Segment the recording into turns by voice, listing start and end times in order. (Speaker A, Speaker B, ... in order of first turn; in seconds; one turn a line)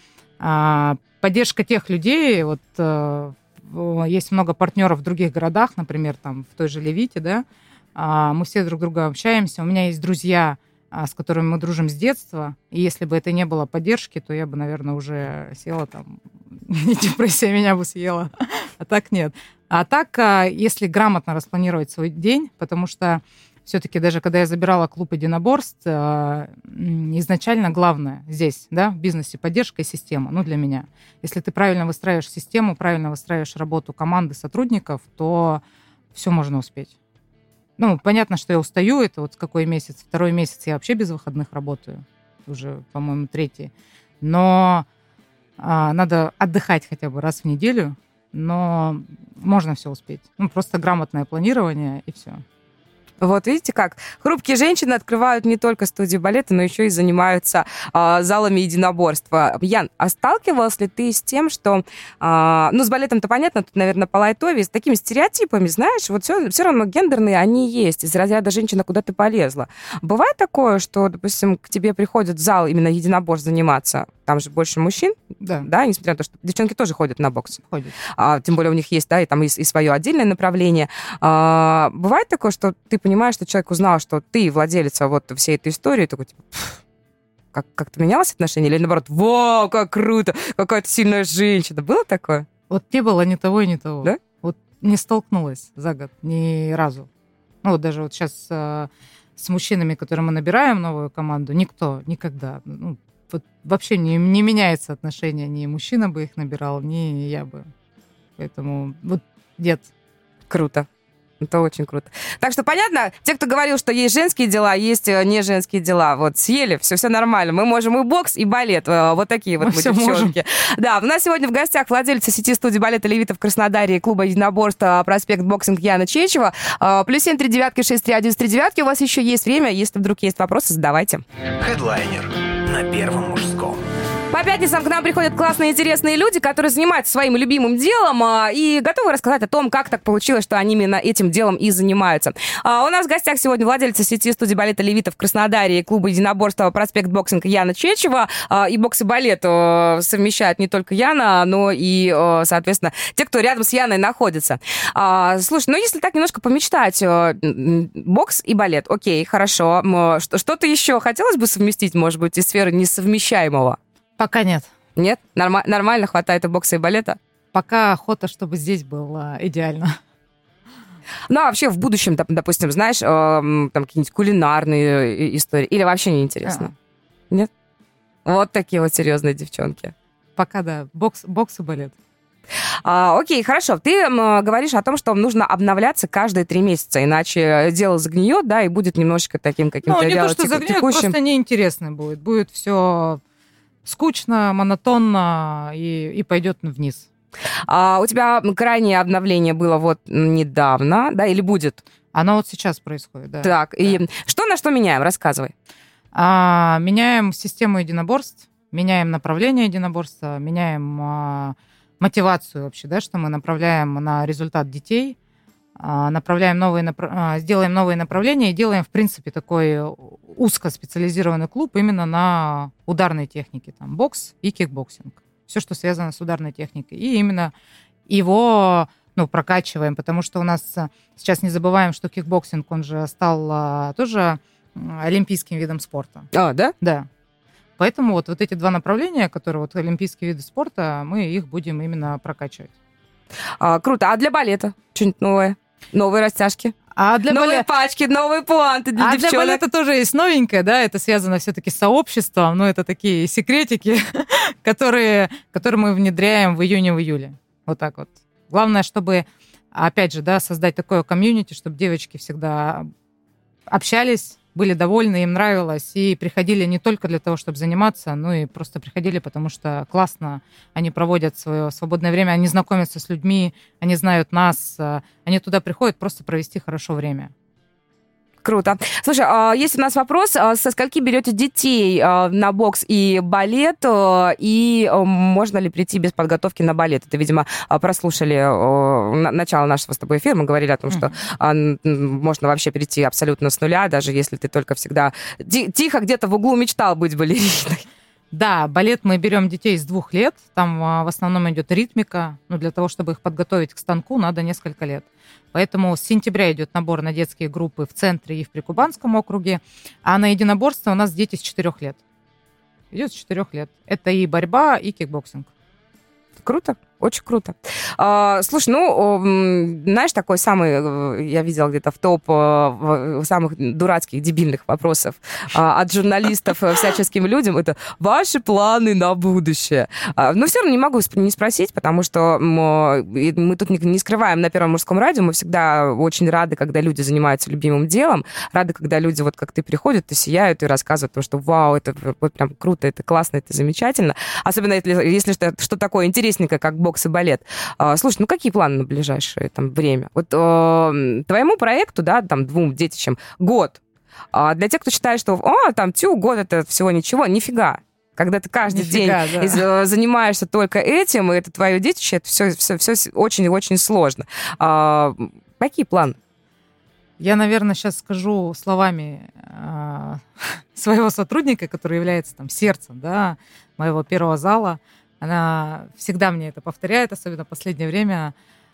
Speaker A: 0.4-36.9
Speaker A: 37.8-44.9
Speaker A: 45.6-52.4
Speaker B: 53.2-77.6
Speaker A: 75.4-75.7
Speaker A: 77.7-77.9
Speaker B: 78.1-86.8
Speaker B: 87.5-92.5
Speaker A: 92.7-97.1
Speaker A: 97.6-107.6
Speaker A: 108.4-109.9
Speaker B: 110.5-110.9
Speaker B: 111.4-131.2
Speaker A: 119.6-120.3
Speaker C: 131.6-133.9
Speaker B: 134.3-163.8
Speaker A: 164.2-164.7
Speaker B: 164.9-167.2
Speaker A: 167.5-170.0
Speaker B: 171.3-176.7
Speaker A: 176.4-176.7
Speaker B: 178.2-179.9
Speaker A: 180.4-182.0
Speaker B: 182.8-191.1
Speaker A: 189.8-193.2
Speaker A: 193.8-197.1
Speaker B: 197.7-201.8
Speaker A: 202.1-204.0
Speaker B: 203.4-205.5
Speaker A: 206.1-215.2
Speaker A: 215.8-227.5
Speaker A: 228.1-236.3
Speaker B: 236.3-236.7
Speaker A: 236.8-237.1
Speaker A: 237.8-242.7
Speaker B: 243.6-246.8
Speaker A: 246.9-247.7
Speaker B: 247.3-249.6
Speaker A: 249.0-262.9
Speaker A: 263.7-277.3
Speaker B: 278.4-297.9
Speaker A: 290.9-291.1
Speaker A: 298.3-312.0
Speaker A: 312.9-315.5
Speaker B: 316.4-353.8
Speaker B: 354.3-366.2
Speaker A: 358.6-359.6
Speaker A: 367.2-378.3